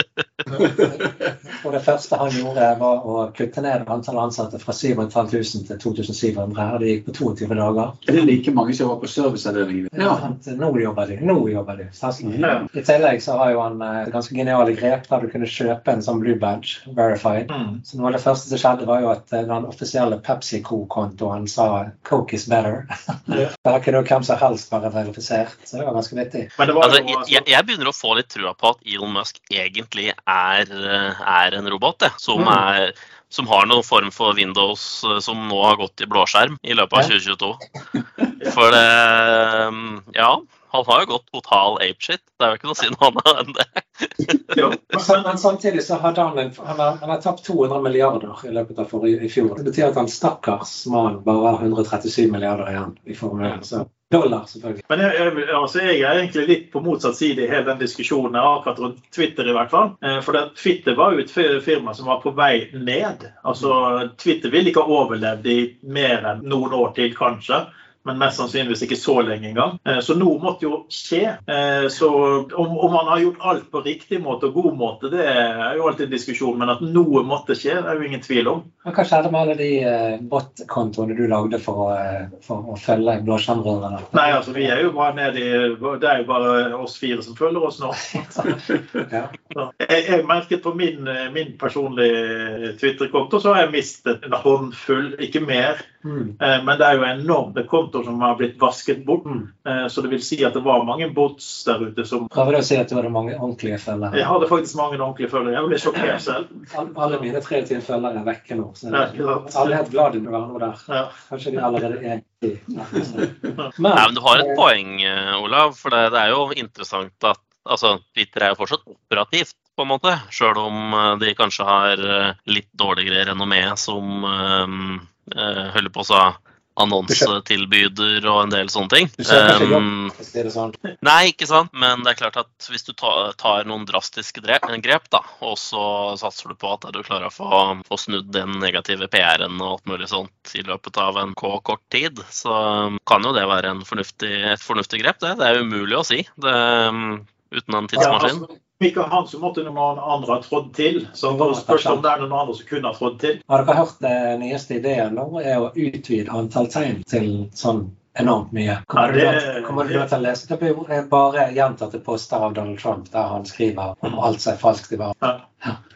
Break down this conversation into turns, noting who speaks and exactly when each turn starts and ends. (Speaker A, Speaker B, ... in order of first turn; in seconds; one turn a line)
Speaker A: 0.6-1.3
Speaker B: 0.7-8.0
Speaker A: 8.1-10.3
Speaker B: 9.9-26.5
Speaker A: 12.2-12.7
Speaker C: 17.5-17.8
Speaker C: 26.6-27.4
Speaker D: 26.8-37.6
Speaker D: 38.4-44.3
Speaker C: 44.5-45.4
Speaker B: 44.9-54.8
Speaker C: 54.9-78.7
Speaker B: 78.8-84.7
Speaker C: 84.1-88.5
Speaker B: 88.1-89.3
Speaker C: 89.5-95.8
Speaker B: 96.0-96.3
Speaker C: 96.4-102.3
Speaker B: 102.3-104.3
Speaker C: 104.1-106.5
Speaker B: 106.7-114.6
Speaker C: 108.9-109.8
Speaker C: 110.9-111.1
Speaker D: 113.9-130.1
Speaker B: 129.2-130.8
Speaker D: 131.0-148.4
Speaker C: 148.0-153.4
Speaker B: 151.3-152.1
Speaker B: 153.5-165.8
Speaker C: 158.9-160.0